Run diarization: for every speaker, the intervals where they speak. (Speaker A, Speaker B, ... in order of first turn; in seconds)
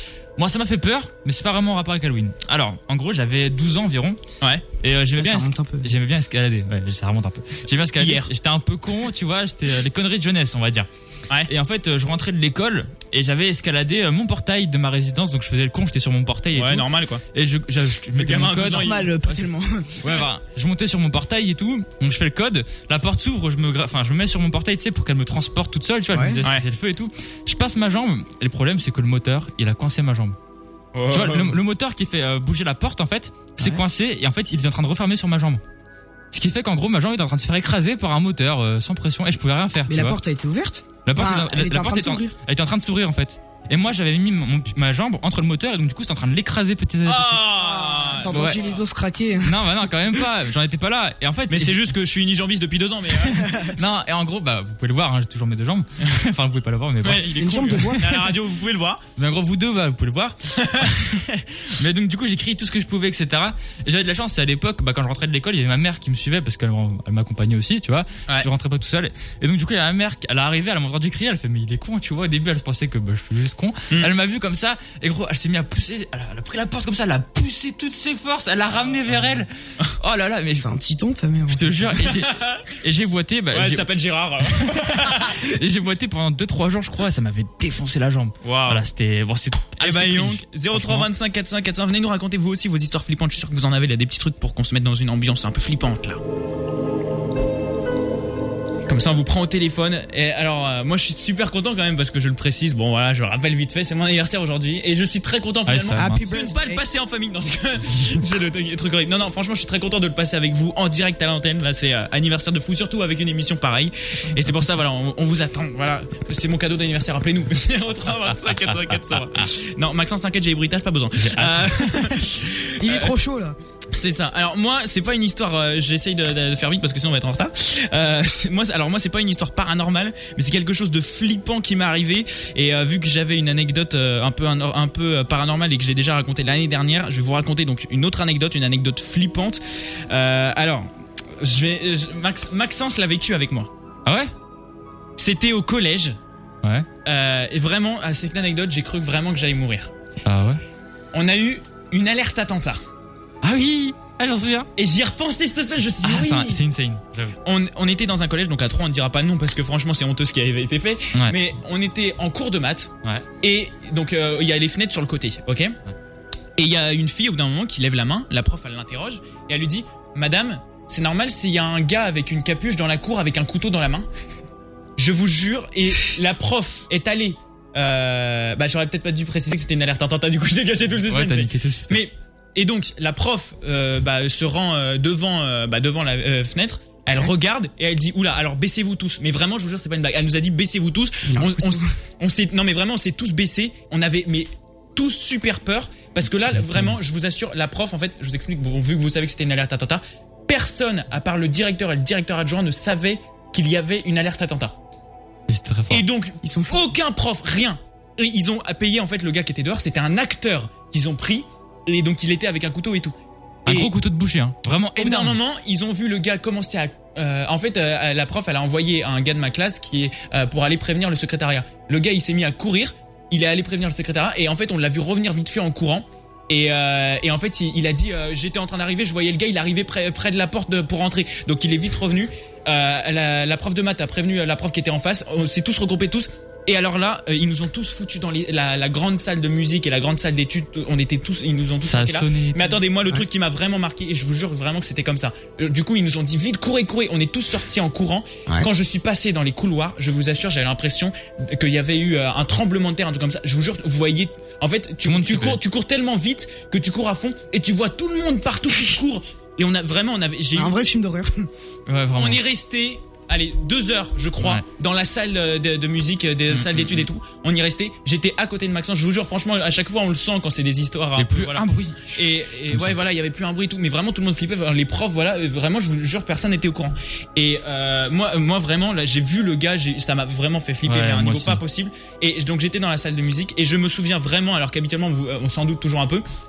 Speaker A: 0.4-4.2, 4.8-10.9, 11.5-30.4, 31.1-35.6, 36.3-40.2, 41.1-47.5, 48.3-48.6, 49.4-51.9, 53.7-58.1, 59.2-80.7, 81.5-83.9, 84.6-91.1, 105.7-106.2, 118.2-119.5, 121.2-122.3, 144.1-144.3, 150.2-150.6, 153.4-154.7, 156.0-157.4, 181.1-182.1, 196.3-196.9, 205.5-206.1, 213.7-215.4, 241.8-242.8, 255.0-255.6, 261.9-262.4, 266.5-267.1, 271.2-273.0, 280.9-281.6
Speaker B: 5.2-5.9, 18.6-20.2, 26.1-26.4, 33.6-33.8, 39.9-42.4, 47.5-50.2, 53.4-53.7, 57.2-58.3, 80.5-82.0, 106.0-106.8, 122.8-123.6, 191.3-191.9, 206.4-206.9, 260.6-261.5
Speaker C: 8.0-8.3, 16.6-17.2, 18.2-19.1, 30.9-31.6, 47.0-48.8, 51.5-53.5, 57.0-59.0, 60.6-61.0, 82.1-82.6, 83.5-85.4, 88.4-88.9, 89.8-96.2, 98.9-123.1, 123.9-143.7, 145.2-146.2, 147.1-149.9, 151.1-152.8, 154.8-156.6, 157.4-165.8, 166.6-174.1, 175.0-204.8, 205.9-213.1, 215.0-260.8, 262.2-286.2